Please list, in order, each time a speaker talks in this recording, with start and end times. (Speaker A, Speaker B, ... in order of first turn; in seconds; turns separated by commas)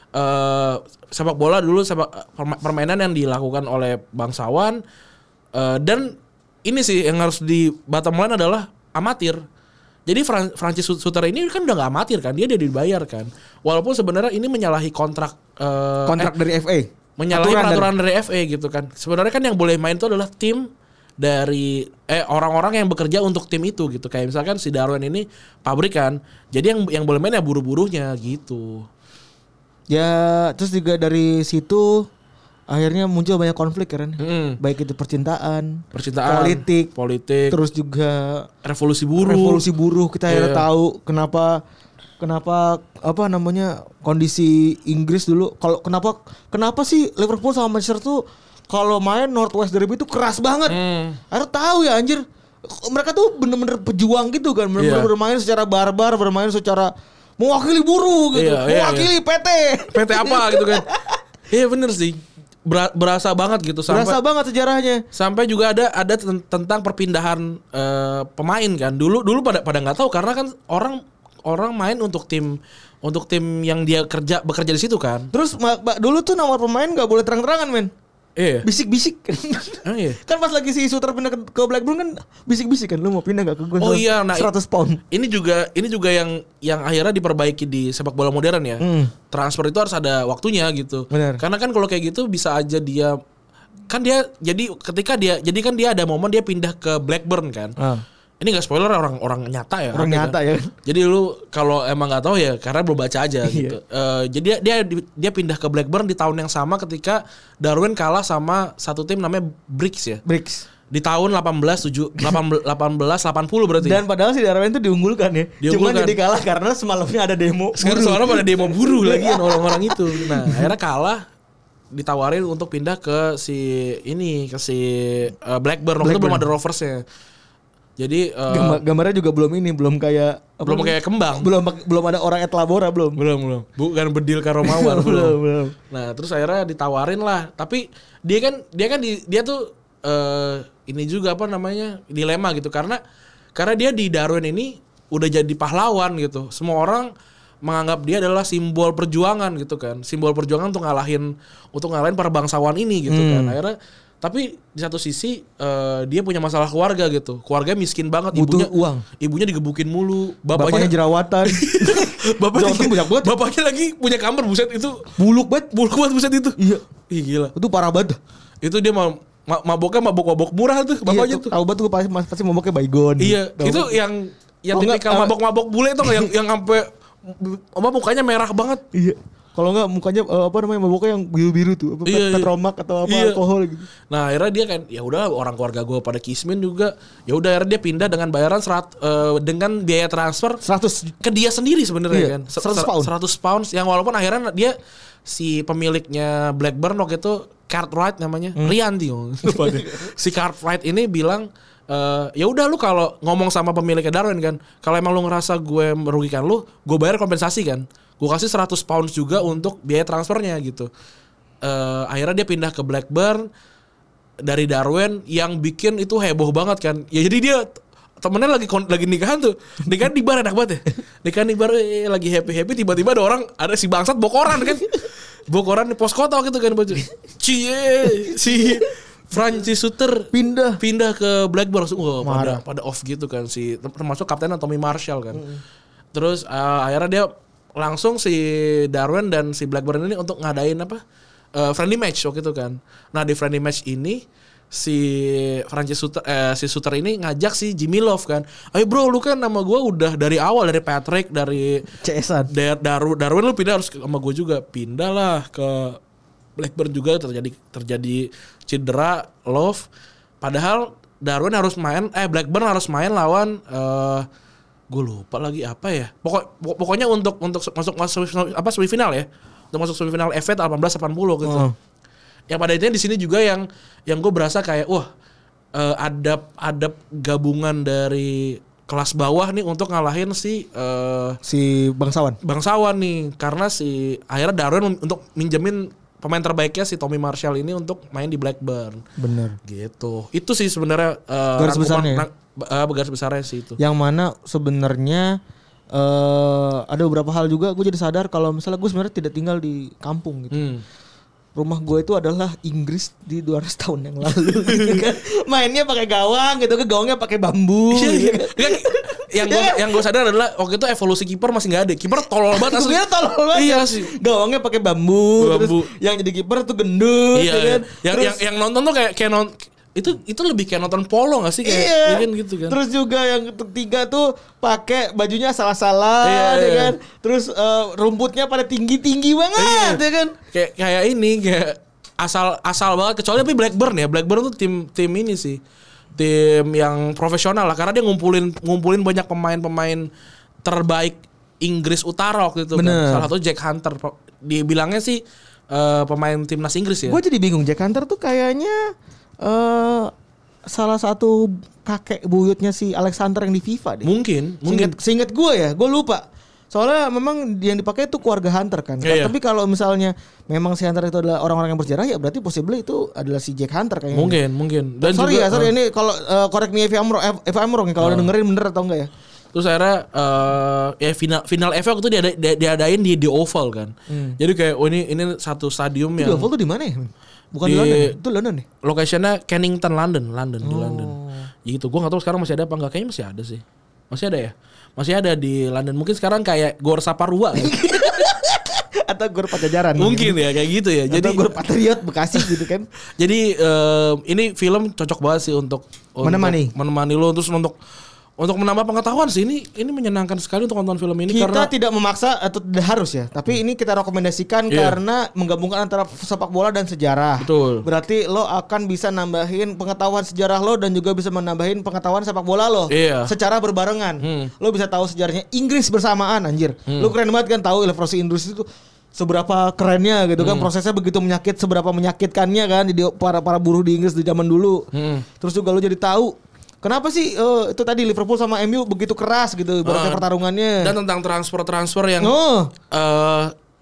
Speaker A: 0.1-4.8, Speaker A: 5.5-9.4, Speaker A: 10.1-16.3, Speaker B: 16.1-17.9, Speaker A: 17.2-28.9, Speaker B: 29.9-32.1, Speaker B: 32.7-36.9, Speaker A: 34.2-34.6, Speaker A: 35.9-37.6, Speaker B: 37.5-38.5, Speaker A: 38.6-39.6, Speaker B: 39.2-41.6, Speaker A: 40.3-40.6, Speaker B: 42.2-50.8, Speaker A: 50.7-51.2, Speaker B: 51.3-61.2, Speaker A: 54.8-55.1, Speaker A: 58.3-59.1, Speaker A: 59.9-60.9, Speaker A: 61.5-64.2, Speaker B: 63.9-65.0, Speaker A: 65.1-75.3, Speaker B: 75.3-77.9, Speaker A: 78.4-78.7, Speaker B: 78.6-85.0, Speaker A: 79.8-80.2, Speaker A: 83.8-84.5, Speaker A: 85.1-93.2, Speaker B: 88.8-89.1, Speaker B: 91.1-91.4, Speaker A: 93.9-97.7, Speaker B: 97.8-98.0, Speaker A: 98.4-110.2, Speaker B: 99.9-100.7, Speaker B: 103.4-103.8, Speaker B: 110.2-110.6, Speaker A: 110.9-114.0, Speaker B: 113.8-120.7, Speaker A: 115.6-116.2, Speaker A: 117.8-121.2, Speaker A: 121.9-127.0, Speaker B: 126.0-126.4, Speaker A: 128.0-128.8, Speaker B: 128.5-133.2, Speaker A: 130.6-131.5, Speaker A: 133.2-135.4, Speaker B: 134.6-135.7, Speaker A: 135.9-143.0, Speaker A: 143.6-147.1, Speaker A: 147.6-160.9, Speaker B: 153.1-153.6, Speaker B: 158.3-159.0, Speaker B: 160.5-163.3, Speaker A: 161.4-165.2, Speaker B: 165.2-165.7, Speaker A: 165.7-167.5, Speaker B: 166.6-166.8, Speaker B: 167.5-168.2, Speaker A: 168.6-171.5, Speaker B: 171.1-174.0, Speaker A: 173.2-178.8, Speaker B: 174.7-175.3, Speaker B: 176.0-176.3, Speaker B: 178.9-183.9, Speaker A: 182.1-182.5, Speaker A: 183.0-183.4, Speaker A: 184.1-190.6, Speaker B: 190.6-191.1, Speaker A: 191.2-194.7, Speaker B: 192.1-193.1, Speaker A: 195.2-210.9, Speaker B: 199.4-200.1, Speaker A: 211.6-213.5, Speaker A: 214.4-217.7, Speaker A: 218.2-235.4, Speaker B: 230.3-230.8, Speaker B: 232.2-232.6, Speaker B: 235.3-235.6, Speaker A: 236.1-241.0, Speaker A: 241.6-251.8, Speaker B: 251.9-252.5, Speaker A: 252.5-256.0, Speaker A: 256.6-259.9, Speaker A: 260.4-264.2, Speaker A: 264.9-271.6, Speaker B: 271.4-271.7, Speaker A: 272.5-275.1, Speaker A: 275.7-281.4, Speaker B: 281.4-282.4, Speaker A: 282.4-289.0, Speaker B: 289.2-289.6, Speaker A: 289.6-293.8, Speaker B: 291.6-292.2, Speaker B: 293.8-295.4, Speaker B: 295.9-300.6, Speaker A: 300.5-300.8, Speaker B: 301.5-310.0, Speaker A: 304.5-305.0, Speaker A: 307.9-313.0, Speaker B: 312.5-318.4, Speaker A: 313.5-314.1, Speaker A: 315.4-315.9, Speaker A: 317.3-322.8, Speaker B: 321.6-330.3, Speaker A: 326.2-326.9, Speaker A: 329.6-335.6, Speaker A: 336.1-340.1, Speaker A: 340.6-347.2, Speaker B: 342.7-343.3, Speaker B: 347.1-348.8, Speaker B: 349.4-350.1, Speaker B: 350.7-354.1, Speaker A: 354.0-354.9, Speaker B: 354.6-364.4, Speaker A: 359.0-359.3, Speaker A: 364.1-365.7, Speaker B: 365.0-369.1, Speaker A: 368.0-368.3, Speaker A: 369.5-376.5, Speaker B: 374.1-374.4, Speaker B: 376.2-378.6, Speaker A: 377.6-378.1, Speaker A: 378.8-387.9, Speaker B: 380.6-381.4, Speaker B: 387.6-390.4, Speaker A: 389.9-391.4, Speaker B: 391.1-392.9, Speaker A: 393.2-397.8, Speaker B: 396.2-396.7, Speaker A: 398.4-401.7, Speaker B: 401.3-430.9, Speaker A: 404.7-405.0, Speaker A: 407.4-407.8, Speaker A: 412.9-413.3, Speaker A: 414.2-414.5, Speaker A: 416.9-417.1, Speaker A: 420.4-420.7, Speaker A: 424.9-425.2, Speaker A: 429.8-430.2, Speaker A: 430.8-432.3, Speaker B: 432.2-432.7, Speaker A: 432.9-433.5